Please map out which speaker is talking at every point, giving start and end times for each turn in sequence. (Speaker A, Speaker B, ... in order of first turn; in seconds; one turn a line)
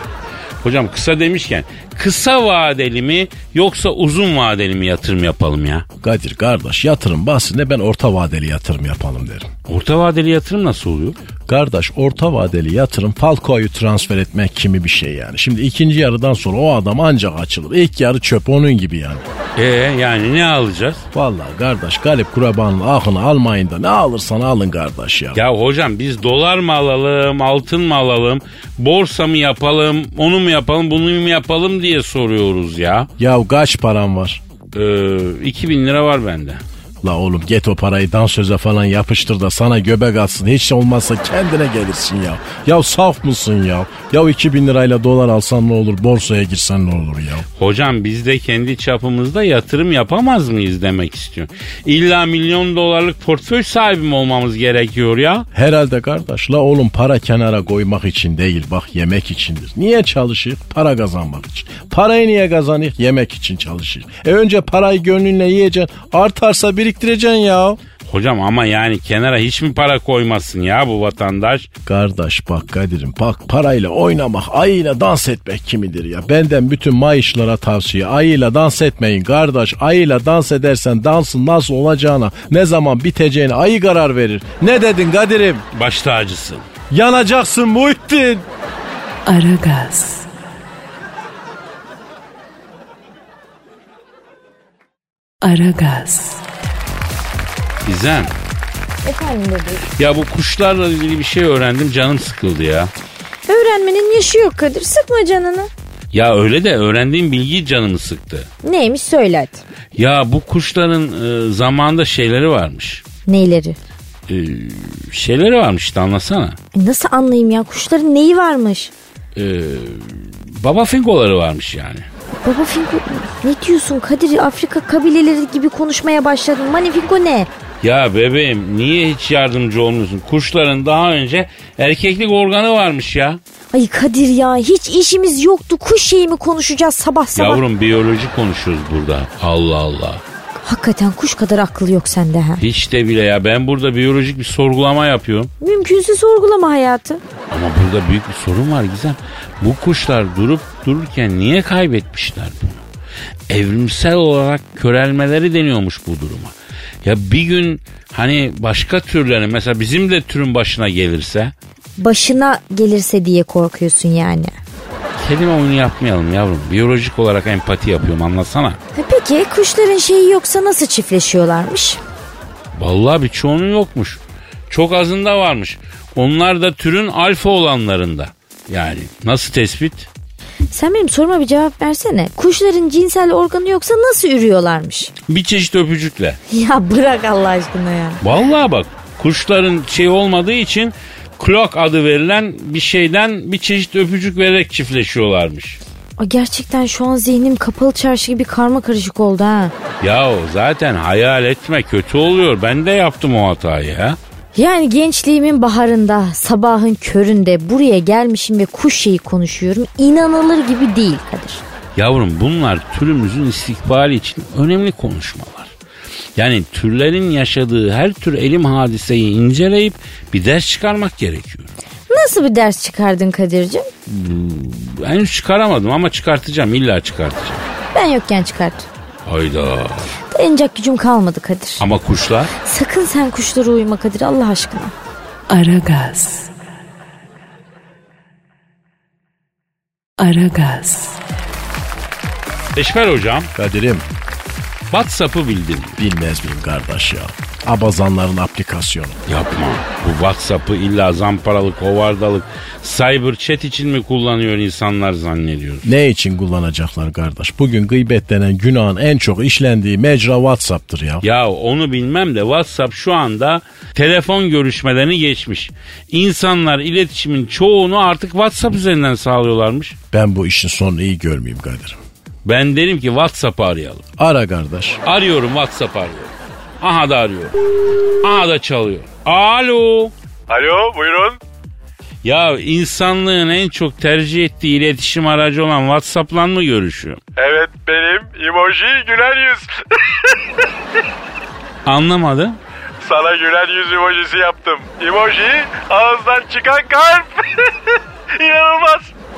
Speaker A: 0.6-5.8
Speaker B: 6.0-9.5
Speaker A: 9.7-11.2
Speaker B: 11.5-19.2
Speaker A: 19.6-21.0
Speaker B: 21.1-25.4
Speaker A: 25.3-33.1
Speaker B: 33.2-34.4
Speaker A: 34.7-36.6
Speaker B: 37.0-47.4
Speaker A: 47.6-55.5
Speaker B: 55.5-67.8
Speaker A: 68.1-71.7
Speaker B: 71.8-85.6
Speaker A: 85.7-86.7
Speaker B: 86.9-88.5
Speaker C: 89.2-90.3
Speaker C: 95.4-96.4
Speaker A: 97.8-98.3
Speaker D: 99.0-99.9
Speaker A: 100.0-102.9
Speaker D: 103.5-105.7
Speaker A: 106.1-108.5
Speaker D: 108.6-109.6
Speaker A: 109.9-113.0
Speaker D: 113.3-113.8
Speaker A: 114.3-116.6
Speaker D: 116.7-118.9
Speaker A: 119.3-122.1
Speaker D: 122.4-127.5
Speaker A: 127.8-133.4
Speaker D: 133.7-137.6
Speaker A: 137.3-140.2
Speaker D: 140.6-142.6
Speaker A: 142.6-145.5
Speaker D: 145.6-147.2
Speaker A: 147.5-152.8
Speaker A: 153.5-161.5
Speaker D: 162.0-164.5
Speaker A: 165.2-168.8
Speaker D: 168.9-172.0
Speaker A: 172.8-180.1
Speaker D: 180.7-185.1
Speaker A: 185.3-186.4
Speaker D: 186.5-188.2
Speaker A: 188.2-195.8
Speaker D: 196.2-199.7
Speaker A: 200.0-204.2
Speaker D: 204.6-211.6
Speaker A: 211.9-215.7
Speaker A: 216.4-221.7
Speaker D: 222.1-223.9
Speaker A: 224.1-227.6
Speaker D: 227.9-228.9
Speaker A: 229.2-230.1
Speaker D: 230.3-231.8
Speaker A: 231.8-232.5
Speaker D: 232.6-234.9
Speaker C: 235.5-236.5
Speaker C: 240.2-241.2
Speaker A: 242.7-243.5
Speaker B: 243.5-244.0
Speaker A: 244.9-246.0
Speaker B: 246.0-249.2
Speaker A: 249.3-255.9
Speaker B: 255.8-261.2
Speaker A: 261.2-269.9
Speaker B: 270.1-272.0
Speaker A: 272.4-274.0
Speaker B: 274.2-275.0
Speaker A: 275.1-277.5
Speaker A: 278.2-280.1
Speaker E: 280.5-281.4
Speaker A: 282.2-287.2
Speaker E: 287.4-290.6
Speaker A: 291.8-292.6
Speaker E: 293.0-299.1